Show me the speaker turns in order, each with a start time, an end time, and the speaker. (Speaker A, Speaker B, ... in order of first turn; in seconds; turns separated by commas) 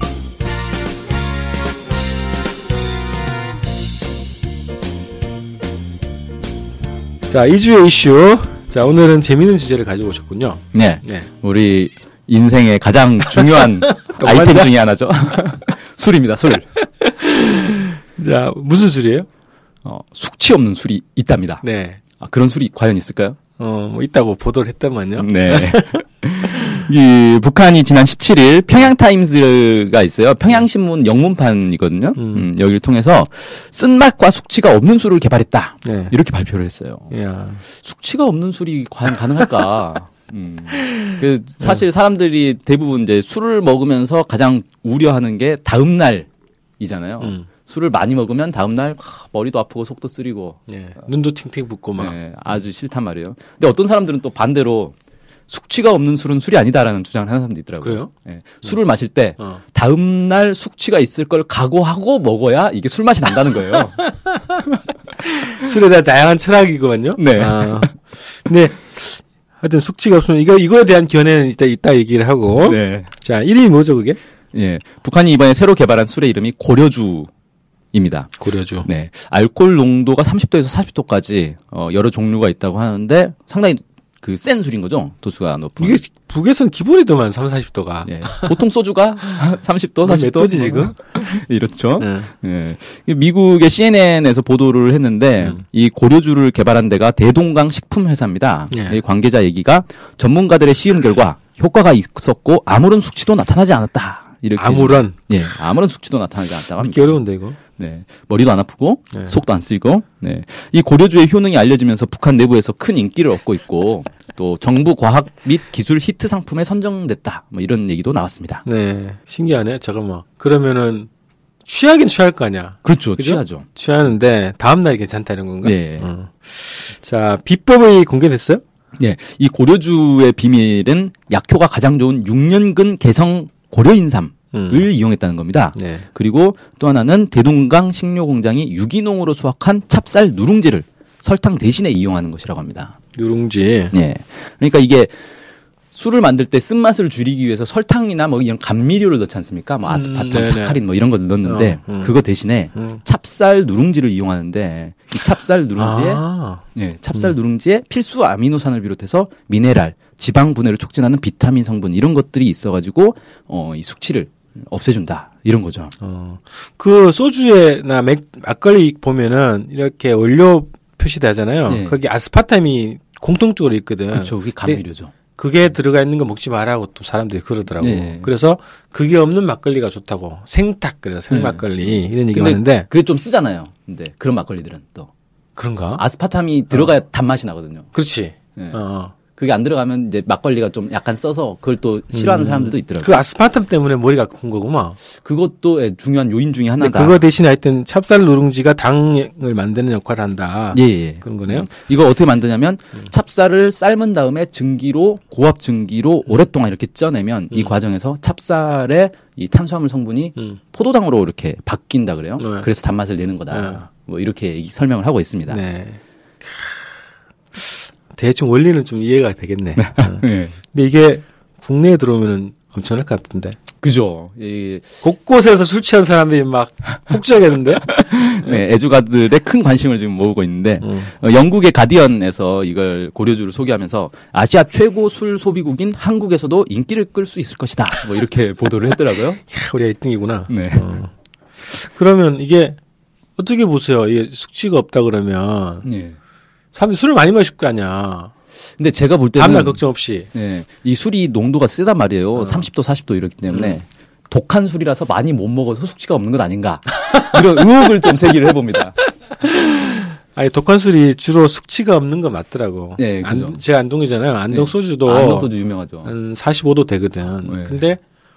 Speaker A: 7.3-11.3, Speaker B: 10.7-16.7, Speaker A: 13.6-14.7, Speaker A: 17.0-19.3, Speaker B: 19.8-21.6, Speaker A: 21.6-22.0, Speaker B: 22.2-23.4, Speaker A: 23.6-26.0, Speaker B: 25.2-37.1, Speaker A: 32.2-32.5, Speaker A: 35.9-36.1, Speaker A: 37.1-37.6, Speaker B: 37.7-46.3, Speaker B: 46.8-50.6, Speaker A: 47.2-47.5, Speaker A: 50.7-52.1, Speaker B: 52.0-55.0, Speaker B: 55.5-64.1, Speaker A: 57.8-58.1, Speaker A: 65.5-74.2, Speaker B: 67.2-67.9, Speaker B: 72.6-73.1, Speaker B: 74.5-77.3, Speaker B: 77.9-78.3, Speaker A: 78.4-78.9, Speaker B: 78.8-86.0, Speaker A: 85.8-88.6, Speaker B: 88.1-107.2, Speaker A: 90.0-91.1, Speaker A: 92.0-92.3, Speaker A: 98.7-99.0, Speaker A: 104.6-105.3, Speaker A: 106.8-107.6, Speaker B: 107.8-118.6, Speaker A: 118.7-121.1, Speaker A: 121.7-128.6, Speaker B: 122.8-123.7, Speaker B: 125.6-126.1, Speaker B: 129.0-143.0, Speaker A: 134.5-134.9, Speaker A: 135.8-136.1, Speaker A: 143.2-143.9, Speaker B: 143.9-145.1, Speaker B: 145.9-156.2, Speaker A: 149.9-150.8, Speaker A: 151.4-152.1, Speaker A: 155.8-156.6, Speaker B: 156.7-165.9, Speaker A: 166.0-174.8, Speaker B: 171.7-172.0, Speaker B: 174.1-175.1, Speaker A: 175.4-182.9, Speaker B: 177.8-178.3, Speaker B: 181.3-185.1, Speaker A: 185.6-186.0, Speaker B: 186.0-187.9, Speaker A: 187.9-189.1, Speaker B: 188.6-188.8, Speaker B: 189.3-193.2, Speaker A: 192.1-195.0, Speaker B: 195.1-197.2, Speaker A: 196.8-201.7, Speaker B: 200.7-215.6, Speaker A: 212.4-212.7, Speaker A: 213.5-213.9, Speaker A: 215.5-216.7, Speaker A: 217.5-223.6, Speaker B: 219.8-220.6, Speaker B: 223.8-225.0, Speaker A: 225.0-227.9, Speaker B: 227.9-239.4, Speaker A: 230.8-231.1, Speaker A: 239.5-242.8, Speaker B: 240.5-240.9, Speaker A: 243.4-245.9, Speaker B: 245.8-246.2, Speaker A: 246.7-248.3, Speaker B: 248.8-259.0, Speaker A: 249.4-250.3, Speaker A: 252.4-252.7, Speaker A: 259.4-265.5, Speaker B: 263.0-263.6, Speaker B: 264.5-266.1, Speaker A: 266.0-268.0, Speaker B: 267.4-267.9